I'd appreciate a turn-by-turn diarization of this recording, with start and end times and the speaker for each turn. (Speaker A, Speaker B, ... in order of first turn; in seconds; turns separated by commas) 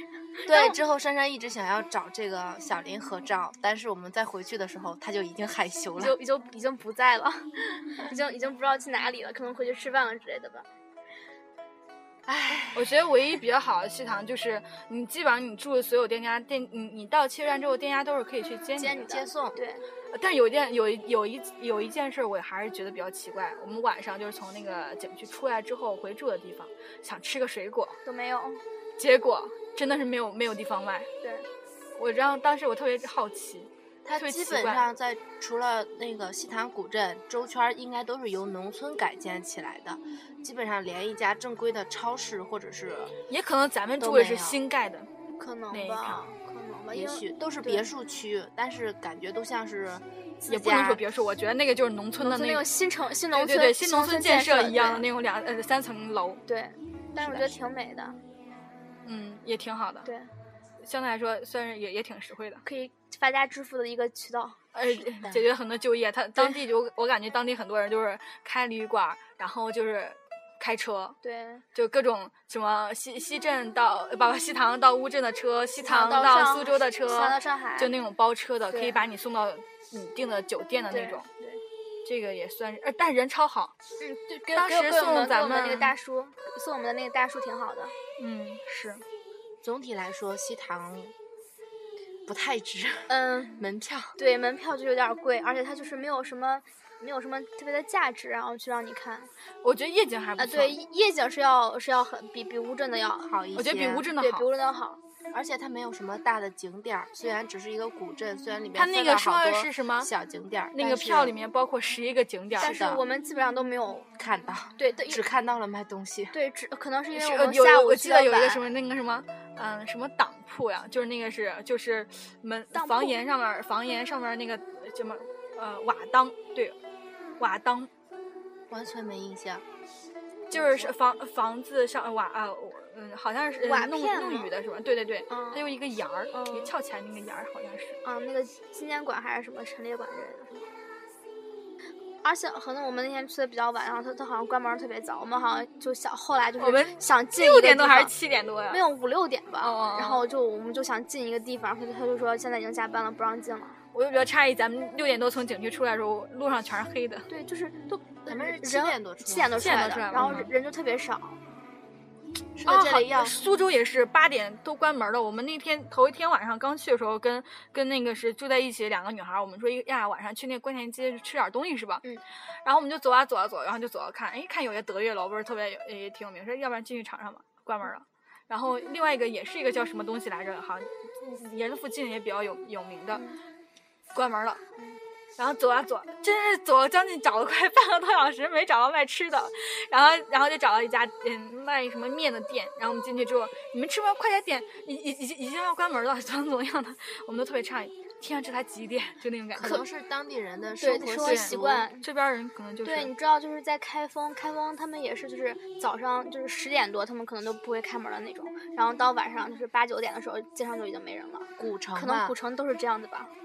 Speaker A: 0.4-0.8, Speaker B: 0.5-6.2, Speaker A: 6.0-10.7, Speaker C: 12.6-19.1, Speaker A: 18.8-19.8, Speaker B: 19.0-19.6, Speaker C: 20.1-28.0, Speaker A: 28.1-28.6, Speaker C: 29.0-31.1, Speaker C: 32.0-34.9, Speaker B: 34.0-43.1, Speaker C: 43.3-45.1, Speaker B: 44.0-44.6, Speaker A: 45.4-47.9, Speaker C: 45.7-46.2, Speaker B: 46.9-51.0, Speaker C: 50.5-52.7, Speaker A: 52.2-55.0, Speaker C: 53.3-56.4, Speaker A: 56.5-58.2, Speaker B: 57.2-57.5, Speaker C: 59.0-60.1, Speaker A: 60.0-60.3, Speaker C: 60.8-62.6, Speaker A: 62.6-64.6, Speaker C: 64.7-71.2, Speaker B: 65.1-65.4, Speaker A: 71.2-71.6, Speaker C: 71.7-81.3, Speaker A: 75.8-77.9, Speaker A: 78.7-79.0, Speaker A: 80.9-81.6, Speaker C: 82.0-83.7, Speaker A: 84.0-87.9, Speaker C: 84.6-85.9, Speaker C: 88.2-89.0, Speaker B: 89.6-91.1, Speaker B: 92.3-94.2, Speaker A: 93.1-93.6, Speaker A: 94.2-99.3, Speaker C: 99.6-100.8, Speaker A: 100.4-103.3, Speaker B: 103.2-104.1, Speaker C: 103.5-104.5, Speaker A: 104.2-105.0, Speaker B: 105.3-111.3, Speaker C: 108.8-110.1, Speaker C: 110.7-112.7, Speaker A: 112.6-114.1, Speaker B: 112.6-113.0, Speaker B: 114.2-116.3, Speaker A: 114.8-115.2, Speaker A: 116.3-118.7, Speaker C: 117.1-126.8, Speaker A: 122.7-123.2, Speaker C: 127.4-127.9, Speaker B: 128.7-129.6, Speaker C: 130.5-138.0, Speaker B: 130.5-130.9, Speaker A: 133.6-134.5, Speaker A: 135.3-135.6, Speaker A: 136.3-136.7, Speaker A: 138.0-140.7, Speaker A: 142.2-148.1, Speaker C: 146.6-148.8, Speaker A: 148.7-153.8, Speaker C: 149.6-150.3, Speaker C: 153.9-157.3, Speaker A: 157.3-161.4, Speaker B: 158.3-160.5, Speaker C: 159.6-160.5, Speaker B: 162.6-163.3, Speaker C: 162.7-172.0, Speaker C: 172.7-183.2, Speaker C: 184.1-184.6, Speaker C: 185.4-199.8, Speaker B: 199.6-201.8, Speaker A: 200.8-202.1, Speaker C: 201.2-203.1, Speaker A: 202.8-213.3, Speaker B: 211.6-212.4